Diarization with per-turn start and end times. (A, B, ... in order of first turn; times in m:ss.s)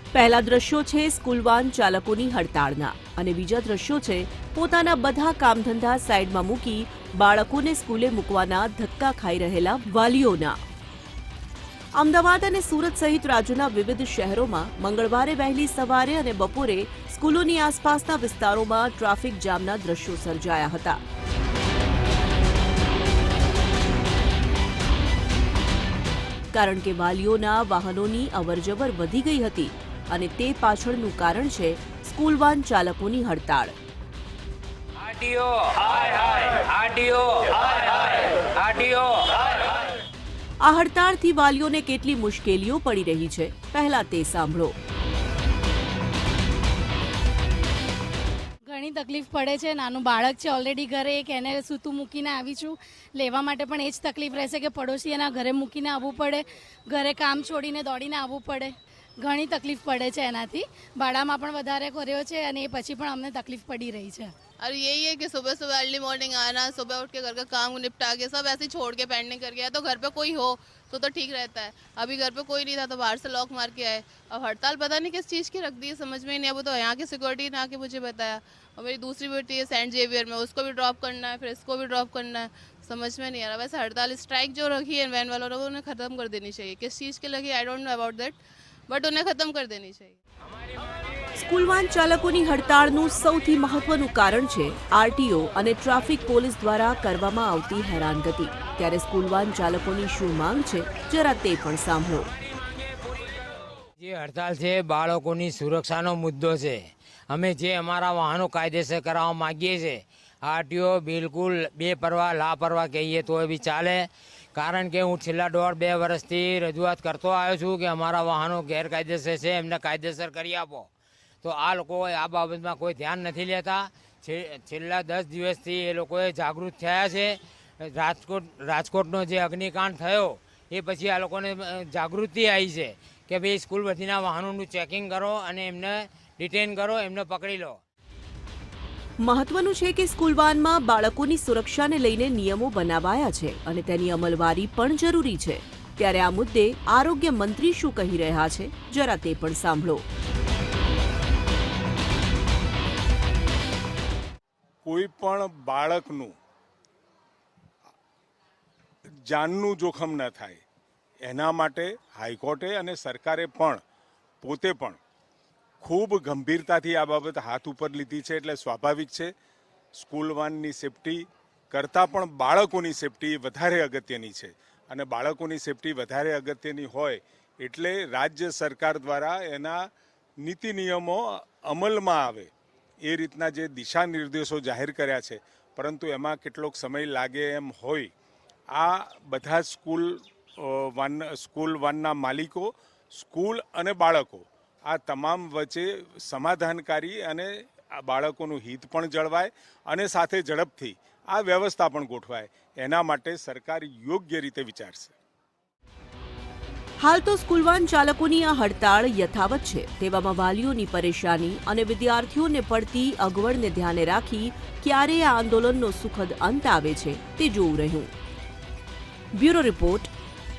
0:00.1-0:10.6 A
0:12.0-0:21.0 A
0:26.5-0:33.7 A
0:35.0-0:39.5 B
0:40.6-0:44.7 A
0:48.7-1:04.3 C
1:04.6-1:28.4 D
1:28.9-1:30.2 D
1:31.4-1:42.3 A
1:44.0-2:00.9 B
2:01.4-2:17.8 B
2:19.2-2:30.0 A
2:34.8-2:36.3 E
2:39.3-2:40.6 E
2:41.2-2:43.8 E
2:44.4-2:45.0 E
2:45.8-2:49.3 E
2:50.0-2:59.8 E
3:00.4-3:02.5 E
3:03.1-3:08.1 E
3:08.7-3:25.1 E
3:27.0-3:38.1 A
3:39.4-3:40.1 A